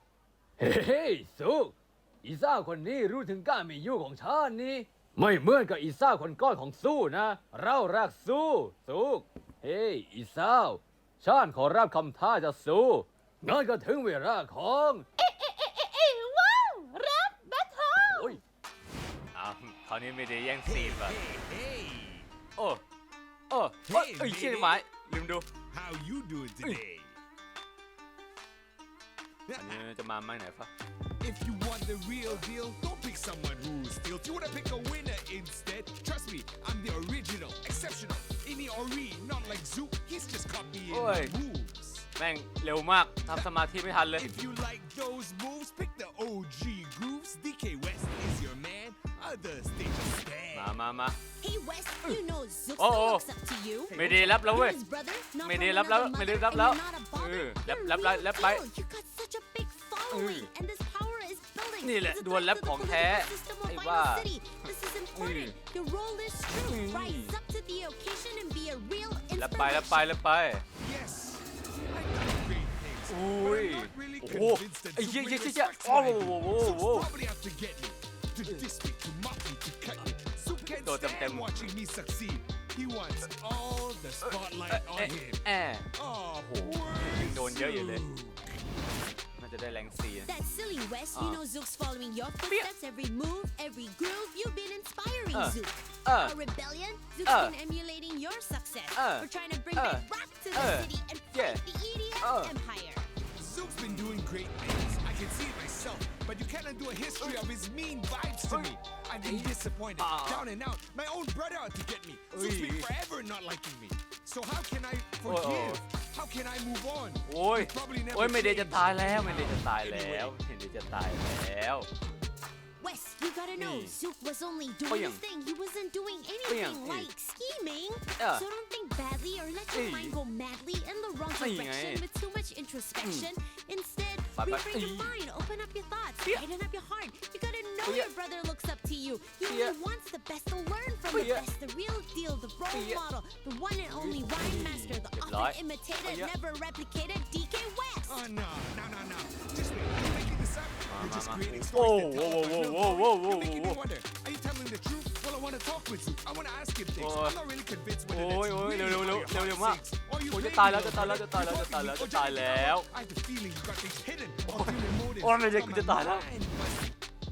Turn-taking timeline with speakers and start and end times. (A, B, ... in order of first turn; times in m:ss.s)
0:00.6-0:15.1 A
0:15.2-0:18.4 B
0:18.1-0:18.4 A
0:19.3-0:21.2 C
0:20.7-0:22.3 D
0:22.6-0:22.8 C
0:23.5-0:25.5 C
0:23.9-0:24.8 D
0:25.7-0:27.2 D
0:29.5-0:29.8 D
0:29.5-0:30.7 C
0:31.2-0:42.1 D
0:40.9-0:41.3 C
0:42.2-0:44.3 C
0:44.1-0:50.8 D
0:50.5-0:51.2 C
0:51.4-1:10.2 E
0:52.8-0:53.2 C
0:53.9-0:54.8 C
0:53.9-0:54.5 D
0:55.4-0:58.6 C
1:00.1-1:00.5 C
1:01.8-1:04.3 C
1:05.1-1:05.6 C
1:06.5-1:07.3 C
1:09.3-1:10.6 C
1:10.8-1:28.4 D
1:13.1-1:17.1 C
1:20.6-1:21.8 C
1:24.2-1:25.9 C
1:26.5-1:28.1 C
1:29.4-1:30.3 C
1:30.2-1:43.1 E
1:31.1-1:31.4 C
1:35.3-1:36.3 C
1:37.2-1:37.5 C
1:38.9-1:41.6 C
1:42.2-1:42.6 C
1:43.4-2:00.3 D
1:43.8-1:44.2 C
1:48.5-1:50.4 C
1:52.3-1:52.9 C
1:55.2-1:55.8 C
1:57.2-2:01.9 C
2:02.8-2:28.2 E
2:03.6-2:04.0 C
2:04.9-2:05.2 C
2:06.5-2:07.1 C
2:08.2-2:08.4 C
2:09.7-2:10.2 C
2:11.3-2:12.0 C
2:13.0-2:13.3 C
2:14.4-2:15.2 C
2:19.5-2:19.8 C
2:21.1-2:21.4 C
2:22.7-2:23.0 C
2:23.9-2:26.3 C
2:28.0-2:47.0 D
2:30.9-2:33.8 C
2:37.0-2:37.4 C
2:38.1-2:42.9 C
2:44.5-2:46.3 C